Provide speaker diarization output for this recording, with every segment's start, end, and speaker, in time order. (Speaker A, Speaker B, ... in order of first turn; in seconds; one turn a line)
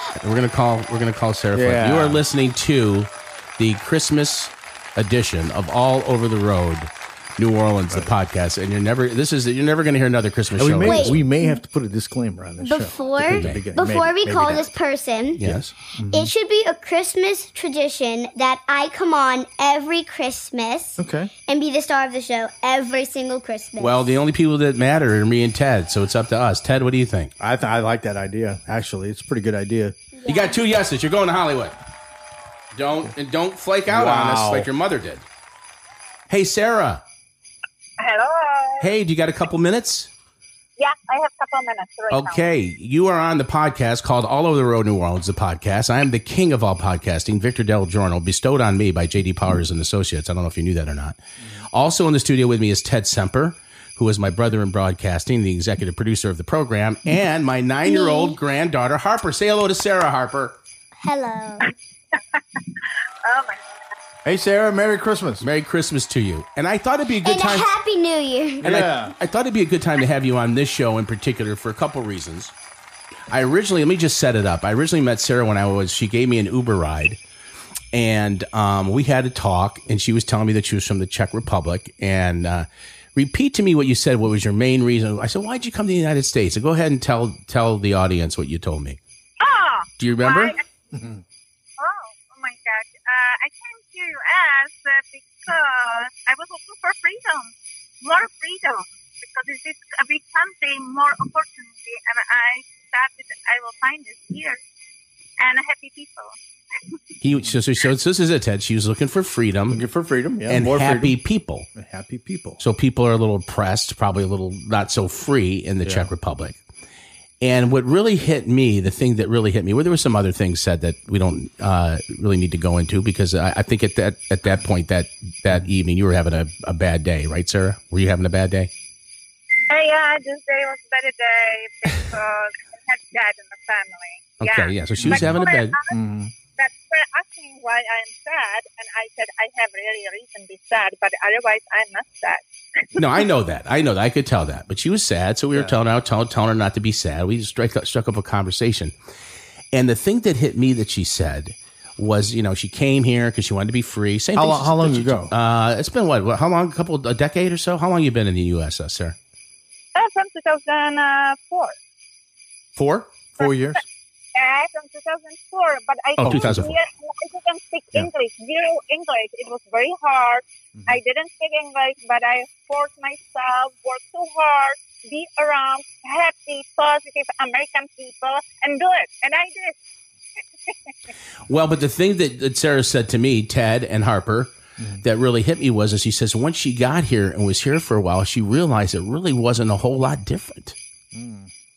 Speaker A: 0.2-11.2
Speaker B: 1.5-2.2
Speaker B: 10.6-14.7
Speaker C: 10.8-11.6
Speaker C: 12.6-15.4
Speaker A: 13.2-13.6
Speaker A: 15.4-15.7
Speaker B: 15.4-16.3
Speaker C: 16.1-24.1
Speaker B: 21.0-21.3
Speaker A: 23.8-27.3
Speaker B: 27.4-29.9
Speaker C: 30.1-30.6
Speaker A: 30.3-31.7
Speaker A: 32.7-35.2
Speaker B: 33.9-34.7
Speaker A: 36.3-37.0
Speaker D: 38.0-38.9
Speaker A: 38.8-40.1
Speaker D: 40.8-42.5
Speaker A: 42.1-51.2
Speaker A: 51.7-60.6
Speaker C: 57.8-58.4
Speaker C: 61.0-61.7
Speaker D: 63.2-63.6
Speaker B: 64.2-65.4
Speaker A: 65.4-67.7
Speaker C: 67.2-68.7
Speaker B: 68.6-69.1
Speaker A: 68.6-72.5
Speaker A: 73.3-77.2
Speaker A: 77.9-89.0
Speaker D: 89.4-90.6
Speaker A: 90.0-90.5
Speaker B: 90.9-91.2
Speaker D: 91.8-104.6
Speaker D: 105.4-106.3
Speaker A: 107.2-109.8
Speaker B: 109.7-111.2
Speaker A: 110.5-111.7
Speaker B: 111.7-112.6
Speaker A: 112.6-116.6
Speaker B: 115.8-116.1
Speaker A: 117.4-128.7
Speaker D: 129.7-135.9
Speaker A: 134.4-135.8
Speaker B: 135.0-136.3
Speaker D: 136.6-142.4
Speaker D: 142.9-143.2
Speaker A: 143.0-148.9
Speaker A: 149.7-159.2
Speaker B: 154.3-155.3
Speaker D: 159.9-161.8
Speaker A: 162.8-163.1
Speaker B: 163.4-163.8
Speaker D: 164.3-179.8
Speaker A: 166.2-166.7
Speaker B: 166.2-166.6
Speaker A: 181.5-190.8
Speaker B: 184.8-185.0
Speaker B: 191.1-191.5